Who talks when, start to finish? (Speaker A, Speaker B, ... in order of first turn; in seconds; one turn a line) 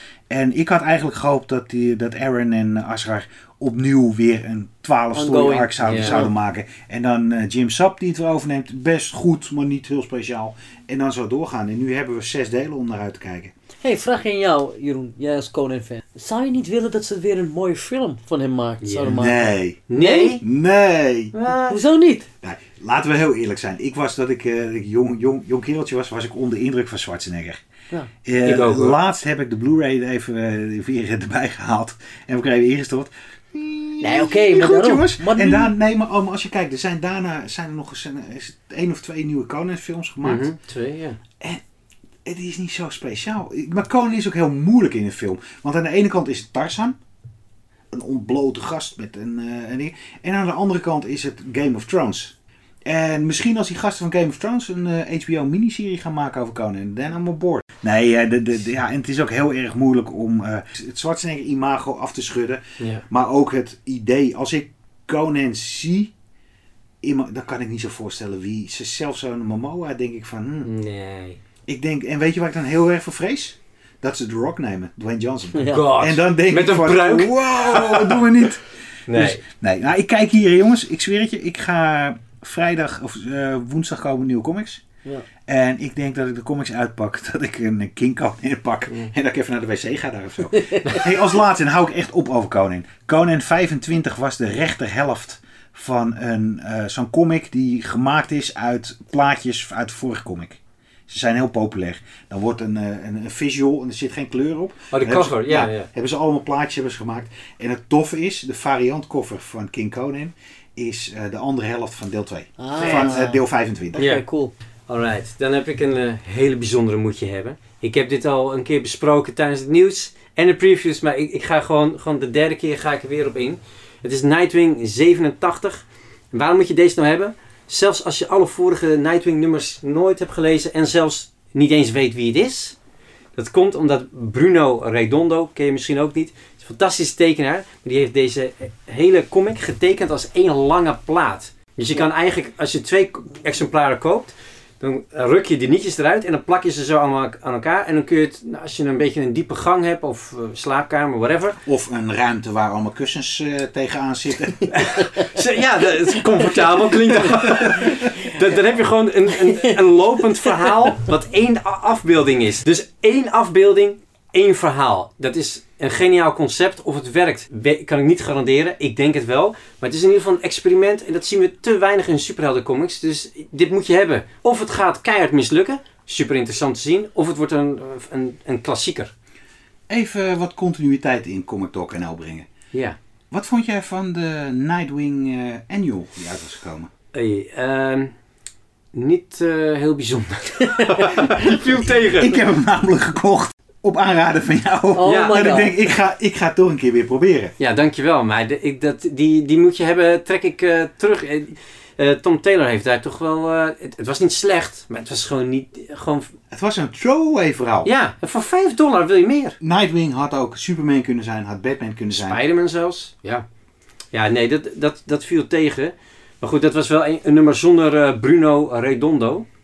Speaker A: 0.3-13.5
Speaker B: 5.1-6.3
Speaker C: 5.8-6.2
Speaker B: 13.8-20.4
Speaker C: 18.8-19.2
Speaker A: 19.1-19.9
Speaker C: 19.9-20.4
Speaker A: 20.4-21.4
Speaker C: 21.4-21.8
Speaker B: 21.7-22.3
Speaker A: 22.4-27.6
Speaker A: 28.2-40.5
Speaker C: 28.4-29.0
Speaker B: 34.0-35.7
Speaker C: 40.2-41.2
Speaker A: 42.2-47.0
Speaker A: 47.9-52.4
Speaker A: 52.9-66.1
Speaker C: 62.8-63.0
Speaker A: 67.0-70.7
Speaker C: 70.6-71.4
Speaker A: 71.7-84.8
Speaker B: 75.5-75.9
Speaker C: 75.7-78.3
Speaker C: 79.1-79.4
Speaker A: 85.5-114.1
Speaker B: 90.7-91.0
Speaker C: 104.9-105.9
Speaker B: 112.6-113.4
Speaker C: 112.8-113.1
Speaker B: 114.0-114.5
Speaker C: 114.9-132.8
Speaker C: 133.4-151.6
Speaker A: 151.7-154.7
Speaker C: 154.7-179.1
Speaker A: 157.1-158.0
Speaker A: 179.9-182.5
Speaker A: 183.3-186.9
Speaker C: 187.1-188.1
Speaker C: 188.9-192.4
Speaker B: 190.7-191.1
Speaker A: 191.1-197.5
Speaker B: 194.9-195.8
Speaker C: 195.1-195.7
Speaker C: 197.6-206.3
Speaker A: 206.5-207.9
Speaker C: 207.8-209.6
Speaker A: 209.6-212.4
Speaker C: 212.1-213.4
Speaker C: 214.1-219.5